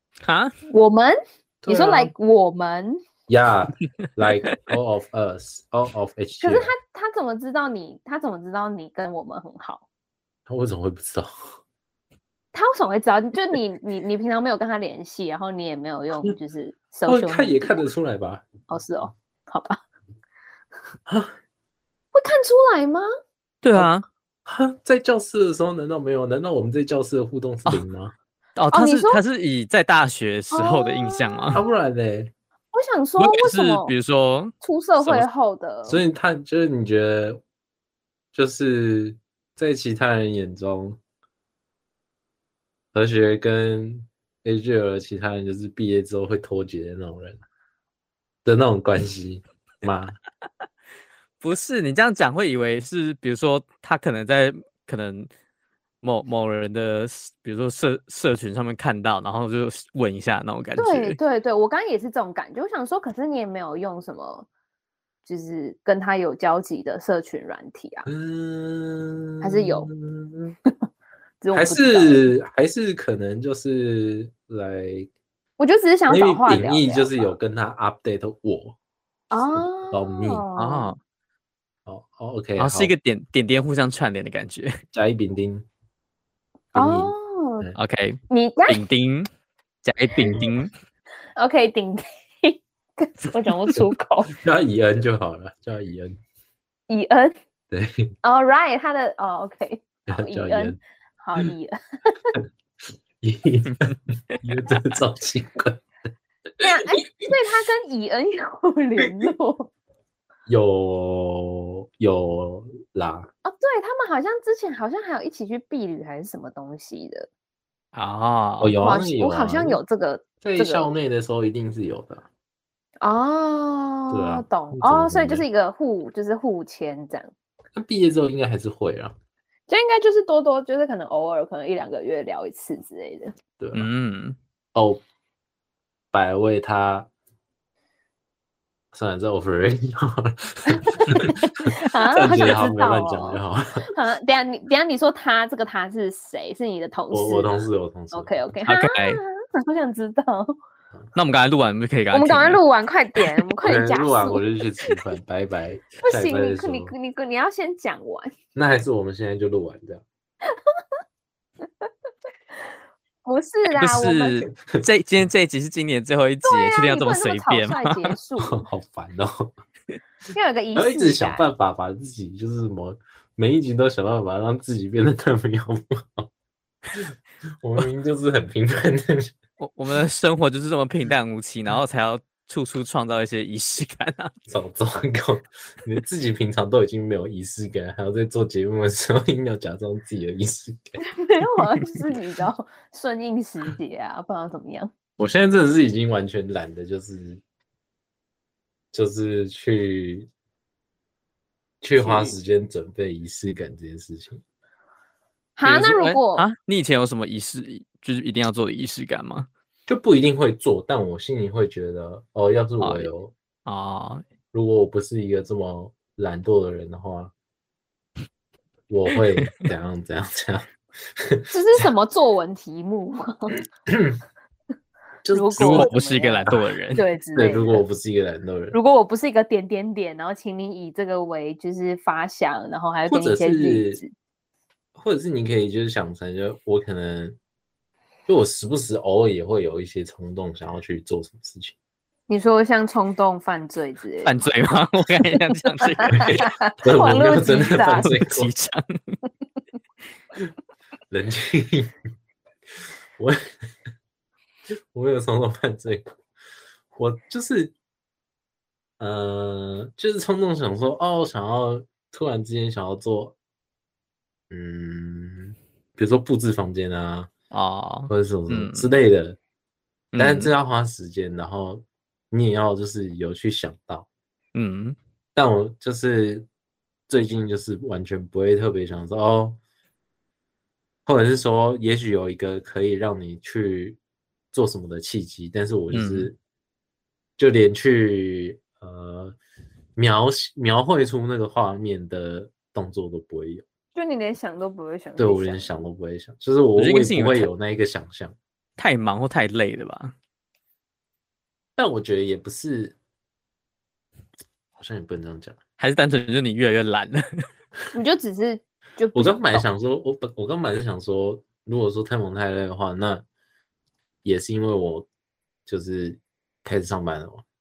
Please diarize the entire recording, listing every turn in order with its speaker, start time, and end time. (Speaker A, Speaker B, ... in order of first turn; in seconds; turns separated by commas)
Speaker A: 0.2-0.5, Speaker B: 0.7-3.0, Speaker C: 1.6-2.1, Speaker C: 3.3-6.7, Speaker B: 6.4-9.8, Speaker C: 10.5-11.3, Speaker B: 12.5-17.8, Speaker C: 17.1-18.5, Speaker B: 18.7-19.8, Speaker C: 21.1-21.4, Speaker B: 22.1-23.1, Speaker A: 23.6-24.0, Speaker C: 24.4-28.1, Speaker A: 28.6-31.6, Speaker B: 28.7-29.2, Speaker B: 30.5-31.7, Speaker C: 31.5-32.3, Speaker B: 32.7-33.9, Speaker A: 33.2-35.3, Speaker B: 34.6-36.0, Speaker C: 35.9-37.4, Speaker C: 38.3-41.0, Speaker C: 42.9-47.4, Speaker C: 48.4-50.1, Speaker A: 51.4-55.3, Speaker A: 56.0-61.2, Speaker B: 60.8-64.5, Speaker B: 65.2-68.1, Speaker C: 68.0-70.5, Speaker B: 69.4-69.9, Speaker B: 71.4-72.2, Speaker C: 71.5-75.1, Speaker B: 75.6-77.2, Speaker C: 76.1-78.8, Speaker B: 79.3-80.9, Speaker C: 79.5-80.5, Speaker A: 80.5-81.0, Speaker C: 81.8-82.9, Speaker A: 82.6-84.8, Speaker C: 84.9-85.7, Speaker C: 86.7-87.8, Speaker B: 86.8-87.7, Speaker A: 87.8-89.3, Speaker B: 88.3-88.8, Speaker A: 89.8-90.7, Speaker B: 91.4-94.3, Speaker C: 93.8-96.2, Speaker B: 96.9-97.3, Speaker C: 97.7-98.1, Speaker B: 98.2-102.3, Speaker C: 100.1-100.8, Speaker C: 103.2-105.8, Speaker B: 106.6-109.7, Speaker C: 109.0-109.3, Speaker C: 110.5-113.3, Speaker B: 113.5-117.3, Speaker A: 117.9-118.8, Speaker C: 118.6-119.8, Speaker B: 118.8-120.9, Speaker C: 120.4-122.2, Speaker B: 123.0-127.3, Speaker C: 124.1-125.5, Speaker C: 127.7-129.2, Speaker B: 129.7-133.3, Speaker C: 133.6-133.9, Speaker A: 133.7-134.4, Speaker C: 134.8-135.0, Speaker C: 136.1-137.1, Speaker C: 138.9-143.8, Speaker B: 140.7-143.4, Speaker B: 143.9-147.5, Speaker C: 147.1-148.4, Speaker B: 148.1-150.5, Speaker A: 148.7-149.2, Speaker A: 151.2-152.6, Speaker B: 152.1-154.4, Speaker C: 153.6-156.9, Speaker B: 156.0-158.3, Speaker C: 158.5-160.0, Speaker B: 163.2-164.4, Speaker A: 163.8-168.1, Speaker B: 166.4-168.6, Speaker C: 168.4-169.5, Speaker B: 170.3-171.5, Speaker C: 170.8-176.3, Speaker C: 177.6-179.3, Speaker A: 179.6-184.3, Speaker C: 184.5-191.0, Speaker B: 191.0-194.9, Speaker C: 191.6-192.1, Speaker C: 195.2-197.4, Speaker C: 198.9-200.3, Speaker C: 201.8-204.4, Speaker B: 205.6-206.5, Speaker A: 205.6-209.5, Speaker C: 209.9-213.3, Speaker A: 212.8-213.1, Speaker A: 213.7-214.2, Speaker C: 214.5-217.3, Speaker C: 218.9-221.9, Speaker B: 221.5-223.6, Speaker C: 223.9-224.2, Speaker C: 225.2-225.9, Speaker B: 225.3-227.8, Speaker A: 225.6-227.0, Speaker C: 226.5-226.7, Speaker C: 227.3-228.8, Speaker B: 228.7-234.1, Speaker C: 233.1-234.0, Speaker C: 235.0-237.4, Speaker C: 238.3-241.8, Speaker B: 242.3-244.4, Speaker A: 244.2-246.3, Speaker B: 245.8-248.2, Speaker C: 246.1-248.5, Speaker A: 248.0-249.2, Speaker C: 251.1-252.0, Speaker C: 253.2-253.5, Speaker C: 254.9-256.2, Speaker C: 256.9-257.8, Speaker C: 259.0-263.4, Speaker C: 264.5-267.3, Speaker A: 267.5-268.9, Speaker C: 268.1-269.4, Speaker A: 270.1-270.5, Speaker C: 270.2-274.1, Speaker A: 274.5-275.0, Speaker C: 275.3-276.5, Speaker C: 277.1-279.6, Speaker C: 281.1-284.0, Speaker C: 284.5-286.4, Speaker A: 285.9-286.3, Speaker C: 287.4-289.4, Speaker C: 290.0-293.6, Speaker B: 293.9-295.7, Speaker C: 295.2-298.4, Speaker A: 296.8-297.5, Speaker A: 298.8-300.1, Speaker C: 301.8-303.0, Speaker C: 304.8-305.6, Speaker A: 305.8-307.4, Speaker B: 307.9-309.6, Speaker C: 309.1-313.2, Speaker C: 314.2-315.1, Speaker C: 315.7-317.4